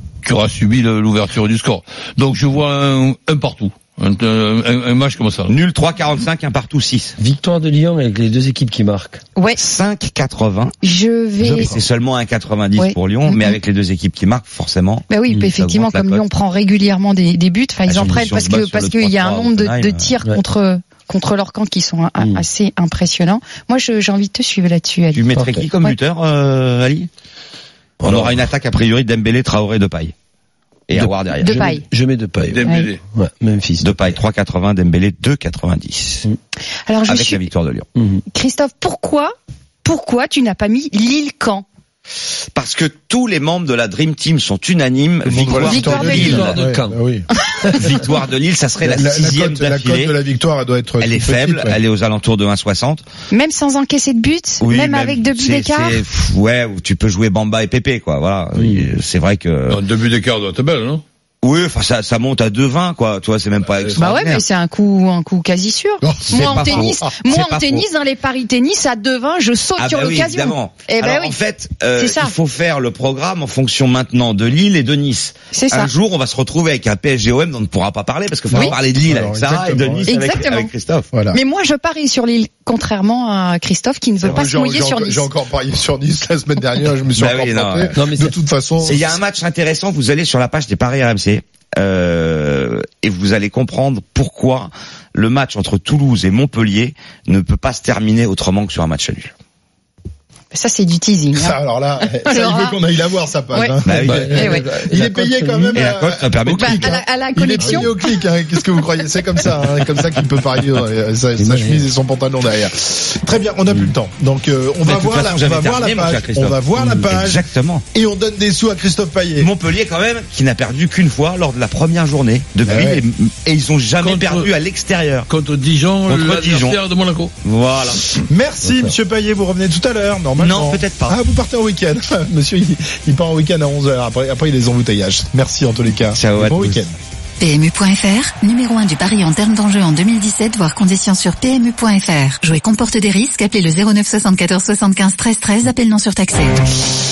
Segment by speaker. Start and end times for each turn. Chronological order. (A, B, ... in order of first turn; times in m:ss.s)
0:00.2-0:05.5 A
0:05.5-0:07.2 B
0:07.2-0:09.2 C
0:09.6-0:10.8 B
0:10.8-0:11.7 D
0:11.4-0:16.2 B
0:11.5-0:11.8 C
0:12.8-0:13.6 D
0:15.1-0:25.2 D
0:17.8-0:20.1 B
0:18.0-0:18.3 C
0:25.1-0:27.1 B
0:25.3-0:25.7 C
0:28.0-0:28.4 C
0:28.0-0:30.1 B
0:30.9-0:31.5 B
0:30.9-0:34.0 C
0:31.4-0:31.8 D
0:32.5-0:33.0 A
0:32.6-0:32.9 D
0:33.8-0:36.3 B
0:36.9-0:37.5 D
0:37.1-0:37.9 B
0:38.3-0:41.6 D
0:42.5-0:46.6 B
0:45.2-0:47.3 E
0:45.4-0:46.4 D
0:45.6-0:47.0 C
0:47.6-0:48.0 C
0:47.7-0:50.1 B
0:48.8-0:51.8 E
0:51.0-0:53.0 B
0:53.3-0:56.0 D
0:54.6-0:59.8 B
0:58.5-0:58.8 C
0:59.7-1:01.0 A
1:01.4-1:04.4 B
1:03.7-1:04.0 A
1:04.0-1:11.4 D
1:06.0-1:07.1 E
1:06.3-1:07.8 B
1:09.8-1:21.1 B
1:12.0-1:12.3 D
1:15.5-1:15.9 D
1:18.5-1:20.2 E
1:20.0-1:20.7 D
1:21.1-1:21.4 E
1:21.3-1:25.3 D
1:24.2-1:29.1 E
1:27.2-1:27.9 B
1:27.9-1:28.4 C
1:28.8-1:39.3 B
1:40.5-1:41.6 D
1:41.3-1:59.5 E
1:42.2-1:42.8 D
1:43.8-1:44.4 B
1:44.0-1:45.8 C
1:44.3-1:44.6 D
1:45.7-1:47.0 B
1:46.5-1:47.9 D
1:51.4-1:51.9 C
1:54.8-1:56.6 B
1:56.8-1:57.1 C
1:57.1-1:57.8 B
1:59.4-2:05.3 B
2:02.6-2:03.0 E
2:04.0-2:04.5 A
2:05.3-2:07.3 A
2:06.0-2:06.8 B
2:07.4-2:08.2 B
2:08.2-2:16.9 E
2:08.6-2:08.9 C
2:10.4-2:11.2 B
2:16.1-2:16.8 B
2:17.4-2:26.5 F